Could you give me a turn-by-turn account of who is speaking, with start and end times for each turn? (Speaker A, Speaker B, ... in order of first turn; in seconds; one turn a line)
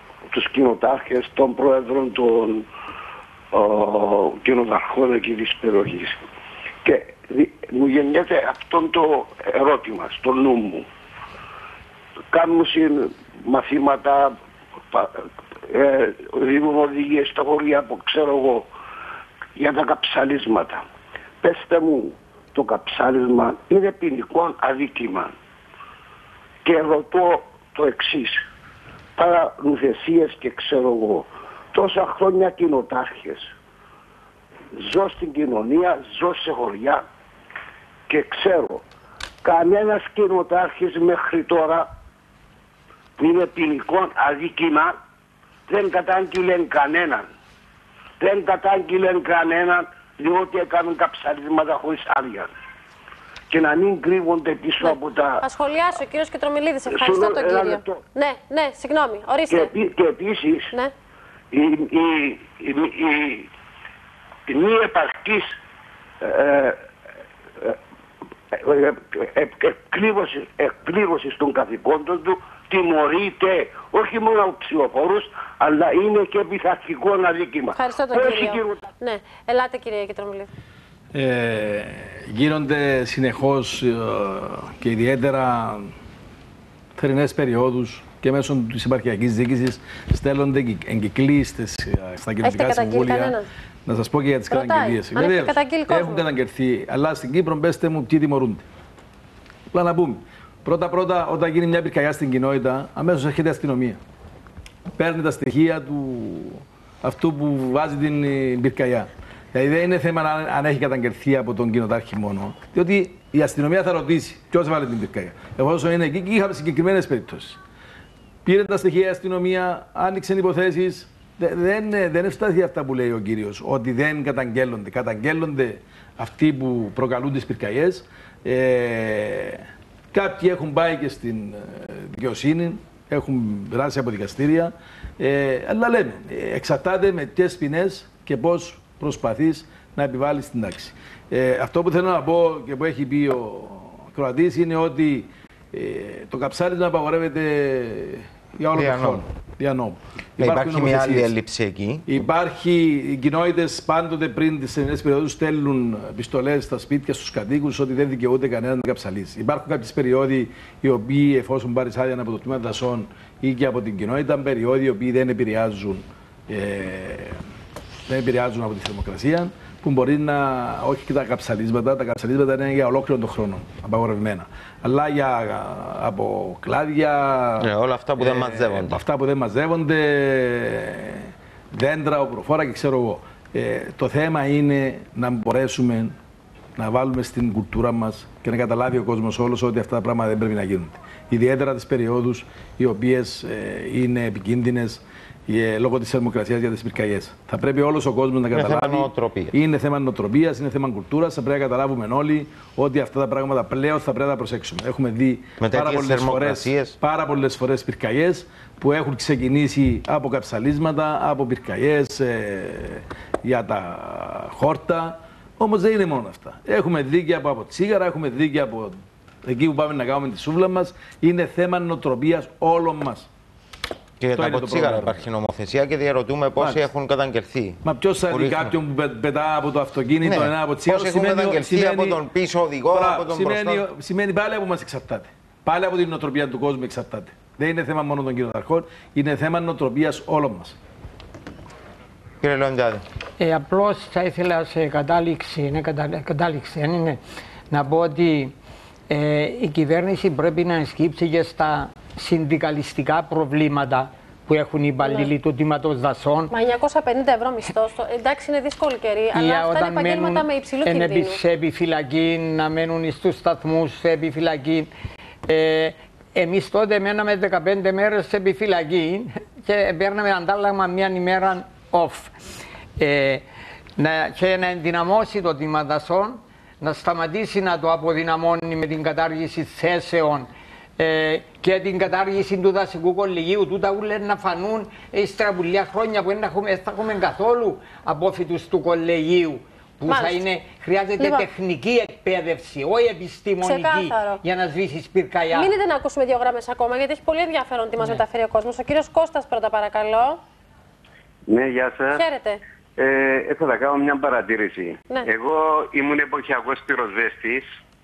Speaker A: 0.3-2.7
Speaker A: 3.5-6.2
Speaker A: 6.8-10.9
Speaker A: 12.3-14.4
Speaker A: 14.9-18.7
Speaker A: 19.6-20.8
Speaker A: 21.4-25.3
Speaker A: 26.6-28.4
Speaker A: 29.2-33.5
Speaker A: 34.7-37.0
Speaker A: 38.1-38.8
Speaker A: 39.4-41.9
Speaker A: 43.2-45.0
Speaker A: 45.7-47.3
Speaker A: 48.2-52.5
Speaker A: 53.5-55.4
Speaker B: 54.8-59.7
Speaker A: 56.9-58.0
Speaker A: 59.5-60.7
Speaker A: 61.5-63.5
Speaker A: 64.5-65.5
Speaker A: 66.2-66.8
Speaker A: 68.5-78.9
Speaker B: 77.8-80.5
Speaker C: 81.1-85.9
Speaker C: 87.0-98.7
Speaker B: 92.4-93.5
Speaker B: 94.5-96.3
Speaker C: 99.7-104.0
Speaker C: 105.0-117.6
Speaker C: 118.5-151.3
Speaker D: 148.7-149.2
Speaker D: 150.4-152.2
Speaker C: 152.1-167.4
Speaker C: 168.1-186.1
Speaker D: 177.6-179.0
Speaker C: 186.8-223.3
Speaker D: 198.5-199.5
Speaker D: 205.6-207.0
Speaker D: 224.2-228.7
Speaker C: 224.3-225.3
Speaker C: 226.6-226.9
Speaker C: 227.8-232.2
Speaker D: 230.2-233.8
Speaker C: 232.9-240.8
Speaker D: 242.4-243.1
Speaker E: 243.4-247.2
Speaker E: 247.7-248.5
Speaker E: 249.1-256.5
Speaker B: 255.0-255.3
Speaker B: 256.5-261.4
Speaker E: 259.3-264.9
Speaker E: 265.5-272.3
Speaker E: 273.0-273.4
Speaker E: 274.0-295.8
Speaker B: 290.1-290.4
Speaker B: 291.2-291.5
Speaker B: 293.6-294.4
Speaker B: 295.5-300.4
Speaker F: 301.5-302.2
Speaker B: 302.1-302.6
Speaker F: 303.0-307.7